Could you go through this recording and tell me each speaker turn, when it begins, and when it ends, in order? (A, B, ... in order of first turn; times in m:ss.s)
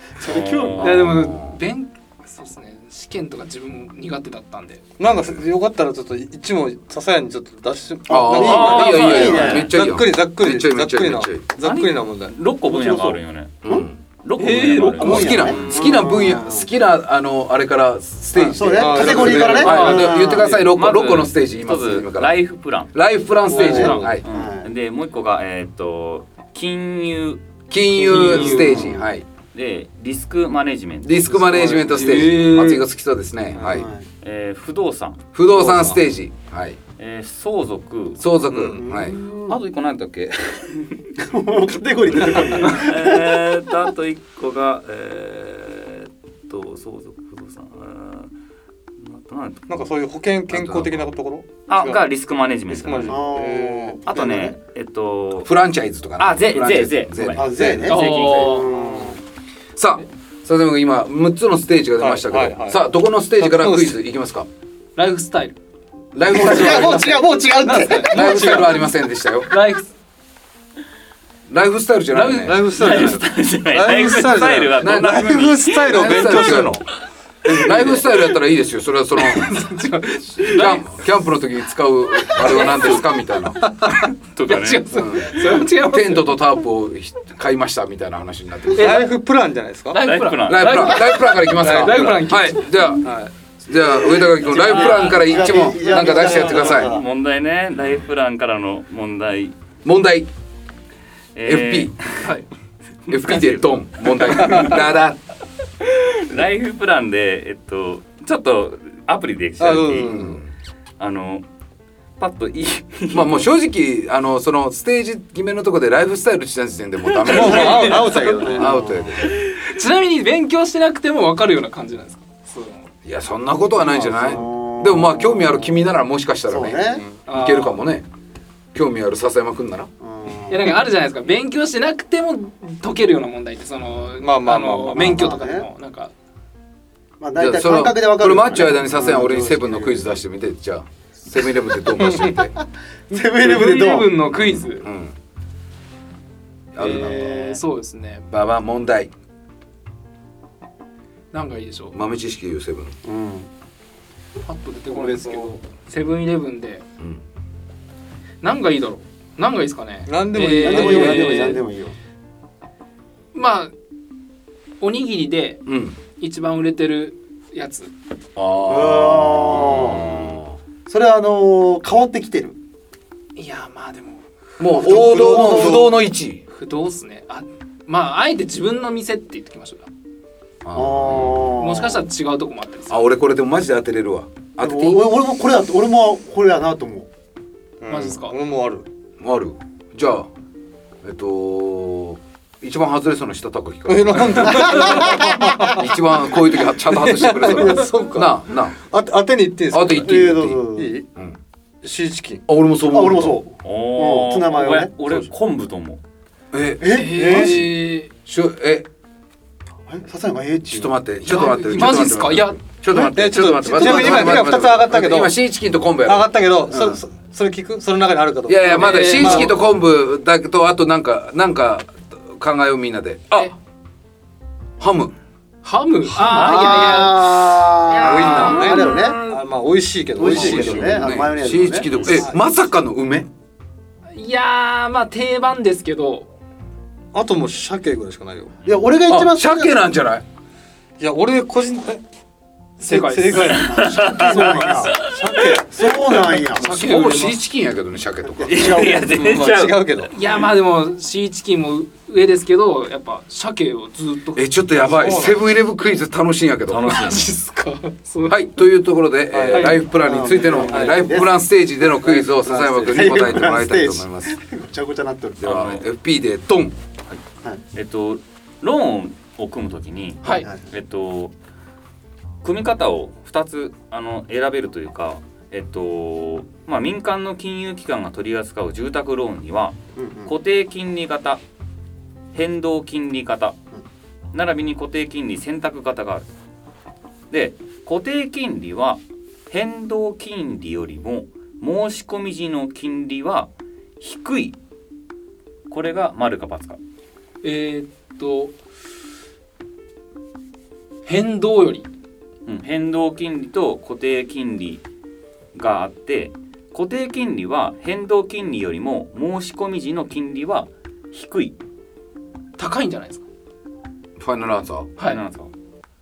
0:00.2-0:01.1 A
0:00.2-0:01.1 B
0:00.8-0:04.8 C
0:00.8-0:01.6 D
0:05.0-0:12.3 E
0:08.1-0:09.7 A
0:08.1-0:11.4 D
0:08.4-0:09.7 B
0:11.6-0:13.7 B
0:12.6-0:13.9 A
0:13.6-0:14.0 D
0:14.2-0:16.0 B
0:14.4-0:15.5 C
0:15.0-0:16.7 A
0:15.0-0:22.3 D
0:18.4-0:20.6 A
0:18.8-0:20.1 E
0:19.1-0:20.4 C
0:20.6-0:22.9 B
0:22.9-0:24.2 D
0:23.5-0:24.2 E
0:23.5-0:24.1 C
0:23.5-0:24.7 A
0:24.2-0:27.4 B
0:27.7-0:29.2 D
0:28.0-0:29.0 C
0:28.2-0:28.8 E
0:29.5-0:32.0 B
0:31.0-0:33.9 D
0:31.6-0:32.8 C
0:33.5-0:33.8 E
0:33.6-0:34.0 A
0:34.2-0:35.3 B
0:35.3-0:36.8 D
0:35.5-0:36.0 E
0:37.0-0:38.2 B
0:38.2-0:39.2 D
0:38.5-0:38.9 E
0:38.8-0:39.6 A
0:39.3-0:41.0 B
0:41.2-0:43.4 A
0:42.2-0:48.3 B
0:49.0-0:49.8 B
0:49.7-0:52.0 E
0:50.5-0:51.1 D
0:51.7-0:53.2 B
0:52.7-0:54.0 E
0:53.0-0:54.6 A
0:54.1-0:55.5 B
0:55.4-0:57.9 D
0:56.2-0:58.8 B
0:57.3-0:59.2 A
0:57.8-0:58.7 C
0:59.7-1:04.5 D
1:02.0-1:02.8 E
1:03.4-1:04.0 E
1:05.0-1:05.6 C
1:06.1-1:07.2 D
1:06.3-1:08.6 A
1:06.4-1:07.0 C
1:06.6-1:07.2 E
1:07.6-1:08.9 C
1:08.1-1:09.6 D
1:08.2-1:08.7 E
1:09.5-1:09.9 C
1:11.5-1:12.6 D
1:12.1-1:12.6 C
1:12.4-1:16.8 E
1:12.7-1:16.8 B
1:14.8-1:16.8 D
1:17.4-1:19.6 D
1:19.1-1:20.9 C
1:20.4-1:23.6 D
1:22.3-1:23.0 C
1:23.9-1:26.3 C
1:24.3-1:24.9 B
1:24.9-1:29.0 D
1:28.7-1:29.1 C
1:28.7-1:30.0 E
1:29.9-1:32.9 C
1:30.0-1:31.1 B
1:30.5-1:33.0 D
1:31.7-1:32.1 E
1:33.0-1:33.3 E
1:33.6-1:37.0 D
1:34.0-1:35.5 C
1:34.5-1:37.0 A
1:36.2-1:39.5 B
1:39.8-1:40.3 D
1:41.3-1:42.3 B
1:41.4-1:41.9 D
1:42.2-1:42.5 C
1:43.1-1:45.2 D
1:43.1-1:43.5 B
1:44.1-1:44.7 B
1:45.9-1:50.3 B
1:49.6-1:50.4 E
1:50.0-1:50.5 D
1:51.0-1:51.4 B
1:52.2-1:53.5 B
1:53.1-1:59.4 D
1:57.2-1:58.1 B
1:57.2-1:58.8 E
1:58.0-1:58.5 C
1:58.4-1:59.3 A
1:59.5-2:02.9 C
2:03.0-2:08.0 D
2:03.8-2:04.4 E
2:04.1-2:06.0 A
2:06.5-2:07.0 A
2:07.2-2:07.8 C
2:08.7-2:09.9 D
2:10.0-2:10.7 A
2:10.5-2:16.1 C
2:14.2-2:15.2 E
2:14.9-2:15.7 A
2:17.2-2:20.2 A
2:17.4-2:22.5 D
2:22.0-2:22.3 E
2:23.1-2:24.1 A
2:23.4-2:24.9 C
2:24.3-2:25.1 D
2:26.7-2:27.3 D
2:26.8-2:28.2 C
2:26.8-2:27.6 A
2:28.3-2:29.1 D
2:31.3-2:32.0 C
2:31.9-2:33.0 D
2:33.0-2:33.5 A
2:34.4-2:36.8 C
2:34.9-2:35.6 E
2:38.4-2:41.6 C
2:40.0-2:41.6 E
2:40.6-2:42.0 A
2:43.3-2:43.7 C
2:44.8-2:45.6 C
2:45.6-2:46.0 D
2:46.2-2:47.9 C
2:48.4-2:50.6 D
2:48.7-2:50.3 A
2:50.9-2:52.6 A
2:53.4-2:54.2 C
2:54.6-2:56.4 D
2:54.7-2:55.9 A
2:54.7-2:55.3 C
2:54.9-2:55.8 E
2:56.5-2:59.9 C
3:00.6-3:01.6 D
3:00.7-3:02.1 A
3:01.4-3:03.0 C
3:02.9-3:05.0 D
3:04.6-3:07.1 A
3:07.8-3:08.8 E
3:07.9-3:08.4 C
3:09.2-3:10.3 D
3:11.0-3:18.7 D
3:13.9-3:15.9 E
3:14.8-3:15.2 A
3:16.5-3:21.0 E
3:19.7-3:20.6 D
3:19.9-3:20.9 A
3:21.8-3:22.4 E
3:22.5-3:23.4 D
3:22.8-3:24.9 A
3:23.6-3:26.0 B
3:26.5-3:27.7 D
3:26.8-3:27.6 A
3:26.8-3:28.1 C
3:28.2-3:28.8 D
3:29.9-3:31.5 A
3:30.7-3:37.0 D
3:31.2-3:33.0 C
3:32.9-3:35.3 E
3:36.0-3:39.5 E
3:38.5-3:43.5 D
3:38.6-3:39.5 C
3:44.8-3:45.1 D
3:45.6-3:49.4 C
3:46.2-3:49.2 A
3:48.0-3:51.1 E
3:50.2-3:51.9 A
3:50.2-3:53.3 D
3:51.9-3:52.1 B
3:52.1-3:52.4 E
3:54.1-3:56.3 C
3:57.1-3:58.6 E
3:58.6-3:59.8 A
3:59.1-4:00.2 D
4:01.0-4:02.0 E
4:02.8-4:06.1 E
4:02.8-4:04.9 C
4:03.5-4:05.2 B
4:03.5-4:06.6 A
4:06.5-4:07.4 C
4:06.5-4:08.9 D
4:08.3-4:09.2 A
4:08.4-4:09.9 B
4:09.0-4:10.1 E
4:10.1-4:15.3 C
4:14.4-4:17.2 D
4:14.8-4:15.4 E
4:16.7-4:17.3 B
4:16.9-4:18.5 C
4:18.3-4:24.4 D
4:19.3-4:21.2 E
4:19.5-4:19.8 C
4:19.9-4:21.3 A
4:22.0-4:23.1 E
4:22.8-4:25.5 A
4:25.4-4:26.7 D
4:25.4-4:25.8 B
4:27.7-4:31.3 B
4:30.2-4:30.5 C
4:30.2-4:30.6 A
4:32.4-4:41.4 B
4:40.0-4:40.3 A
4:42.3-4:43.6 B
4:44.3-4:46.2 B
4:47.3-4:53.5 B
4:54.0-4:54.6 B
4:55.7-4:56.8 B
4:57.4-4:58.5 C
5:01.0-5:01.9 C
5:02.5-5:04.8 B
5:05.5-5:11.5 B
5:12.6-5:13.2 C
5:14.2-5:14.9 D
5:15.0-5:15.5 B